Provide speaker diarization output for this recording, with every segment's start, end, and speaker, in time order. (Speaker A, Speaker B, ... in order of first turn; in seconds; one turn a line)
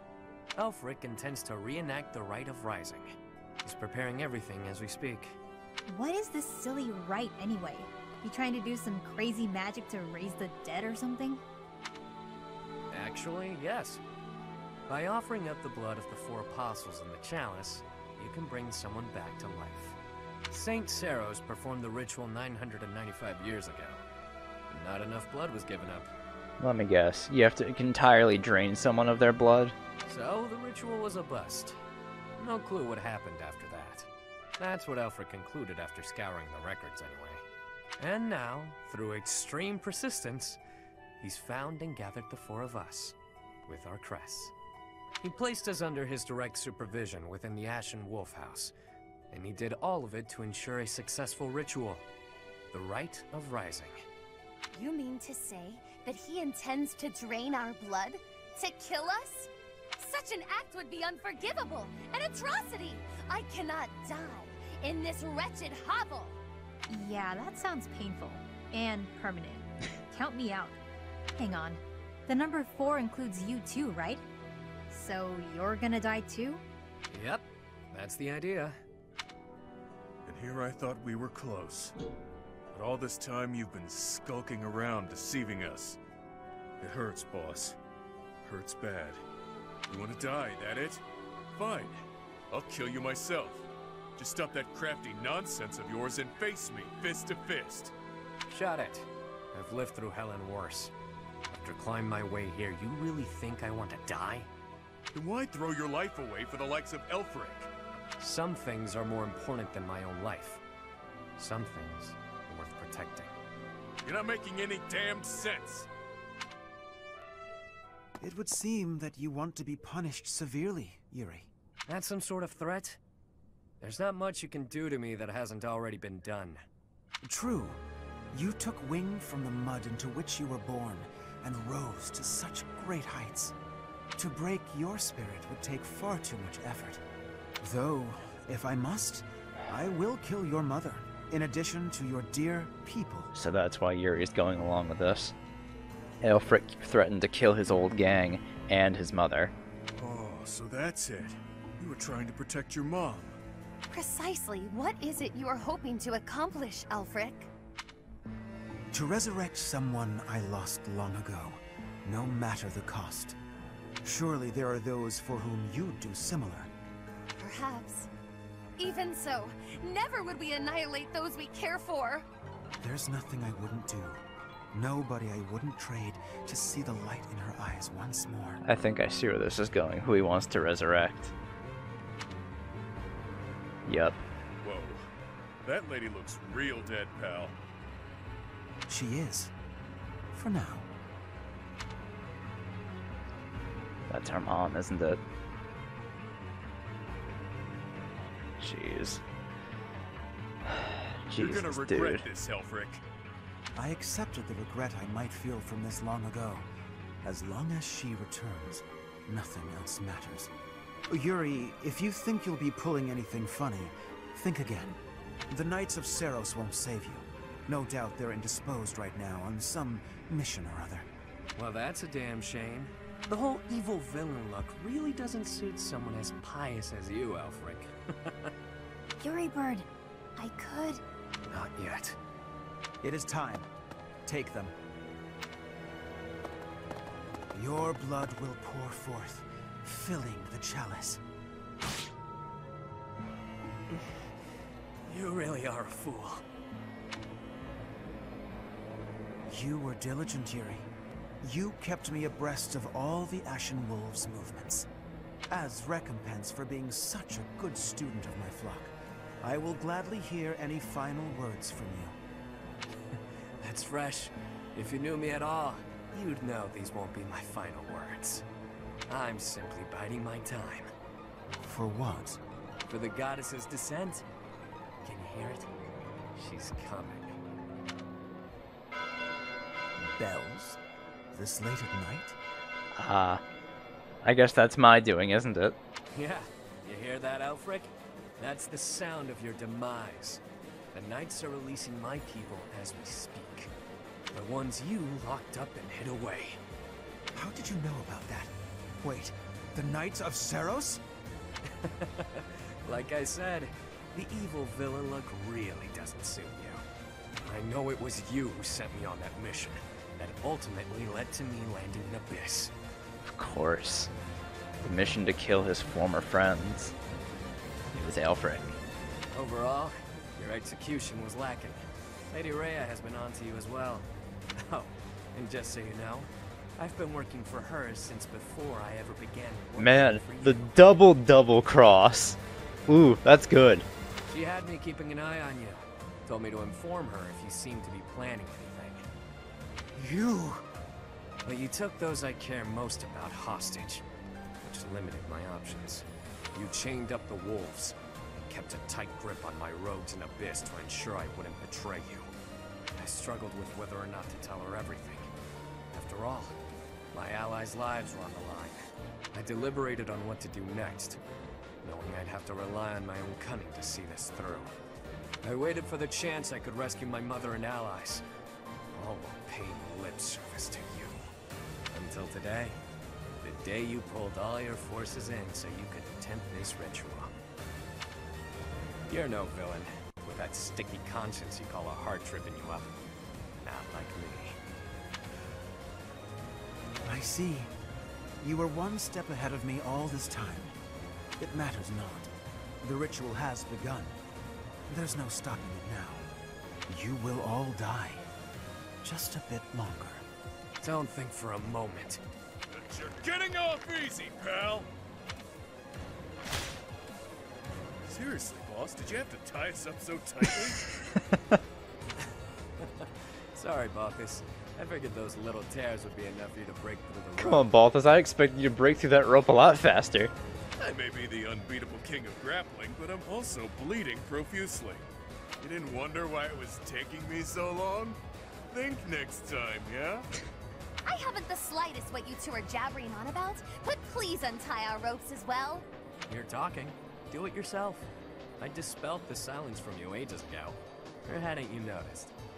Speaker A: 0.6-5.4
Speaker B: 5.9-11.4
Speaker A: 12.9-14.0
Speaker A: 14.9-20.0
Speaker A: 20.5-24.0
Speaker A: 24.7-26.1
Speaker C: 26.6-29.8
Speaker A: 30.1-31.8
Speaker A: 32.4-34.1
Speaker A: 34.6-37.4
Speaker A: 38.0-40.6
Speaker A: 41.2-43.1
Speaker A: 43.7-44.5
Speaker A: 45.2-48.7
Speaker A: 49.3-52.0
Speaker A: 52.7-54.0
Speaker D: 54.7-66.4
Speaker B: 66.9-70.8
Speaker B: 71.4-74.2
Speaker B: 74.9-76.6
Speaker A: 77.1-78.8
Speaker E: 80.3-82.0
Speaker E: 82.7-86.0
Speaker E: 86.8-87.8
Speaker E: 88.4-89.2
Speaker E: 89.9-93.7
Speaker E: 94.2-97.9
Speaker A: 98.5-100.9
Speaker A: 101.5-104.5
Speaker E: 105.1-107.7
Speaker A: 108.2-110.6
Speaker A: 111.4-113.3
Speaker E: 114.0-115.9
Speaker F: 118.2-121.5
Speaker A: 121.9-123.0
Speaker A: 123.8-126.6
Speaker F: 127.2-127.8
Speaker F: 128.3-133.5
Speaker F: 134.2-137.0
Speaker F: 137.6-143.3
Speaker C: 143.3-145.3
Speaker C: 146.2-149.5
Speaker E: 150.0-153.4
Speaker D: 153.9-157.5
Speaker F: 158.9-163.4
Speaker F: 164.1-166.7
Speaker D: 167.4-168.1
Speaker D: 168.8-172.2
Speaker F: 172.8-174.2
Speaker F: 174.7-178.6
Speaker C: 178.7-181.3
Speaker C: 183.8-184.2
Speaker E: 184.6-185.1
Speaker E: 185.6-187.6
Speaker F: 188.9-189.5
Speaker F: 190.3-190.9
Speaker C: 194.1-195.2
Speaker C: 198.6-199.2
Speaker C: 200.7-202.3
Speaker E: 201.4-203.0
Speaker F: 203.8-206.7
Speaker F: 207.2-210.5
Speaker F: 211.1-214.9
Speaker F: 215.5-221.1
Speaker A: 221.6-228.5
Speaker B: 229.2-231.0
Speaker A: 231.5-232.2
Speaker F: 233.0-233.7
Speaker F: 234.3-234.7
Speaker F: 237.5-241.2
Speaker A: 245.1-246.4
Speaker F: 249.5-250.9
Speaker F: 251.4-254.9
Speaker F: 255.5-258.9
Speaker F: 259.4-262.1
Speaker A: 263.6-268.4
Speaker A: 269.1-270.9
Speaker F: 271.6-272.4
Speaker A: 272.9-274.2
Speaker A: 275.1-275.7
Speaker A: 276.4-277.3
Speaker F: 280.0-280.8
Speaker F: 281.3-282.4
Speaker C: 282.9-283.4
Speaker C: 284.2-285.8
Speaker A: 286.1-290.4
Speaker A: 290.9-293.7
Speaker A: 294.3-296.6
Speaker F: 297.4-298.5
Speaker F: 299.0-301.0
Speaker A: 301.8-306.8
Speaker A: 307.4-312.7
Speaker C: 313.2-314.1
Speaker C: 314.8-316.9
Speaker C: 317.9-318.8
Speaker A: 319.3-330.7
Speaker C: 329.8-333.9
Speaker A: 334.3-339.1
Speaker A: 341.4-344.0
Speaker A: 344.6-352.3
Speaker A: 353.0-355.3
Speaker A: 355.9-356.6
Speaker A: 357.1-358.8
Speaker A: 359.3-361.2
Speaker A: 361.8-364.7
Speaker A: 365.4-368.2
Speaker A: 368.9-371.2
Speaker A: 371.9-372.8
Speaker A: 373.4-377.3
Speaker A: 379.1-382.9
Speaker A: 383.6-384.6
Speaker F: 387.1-387.7
Speaker F: 388.4-390.7
Speaker F: 391.4-392.3
Speaker F: 392.8-394.1
Speaker F: 394.9-396.2
Speaker F: 396.9-398.2
Speaker F: 399.0-400.2
Speaker A: 400.8-402.2
Speaker E: 402.7-404.9
Speaker E: 408.1-411.0
Speaker A: 412.8-417.7
Speaker C: 417.4-420.3
Speaker E: 420.8-425.1
Speaker E: 425.6-428.2
Speaker E: 428.7-430.3
Speaker D: 431.1-435.9
Speaker A: 436.3-438.1
Speaker A: 438.6-442.3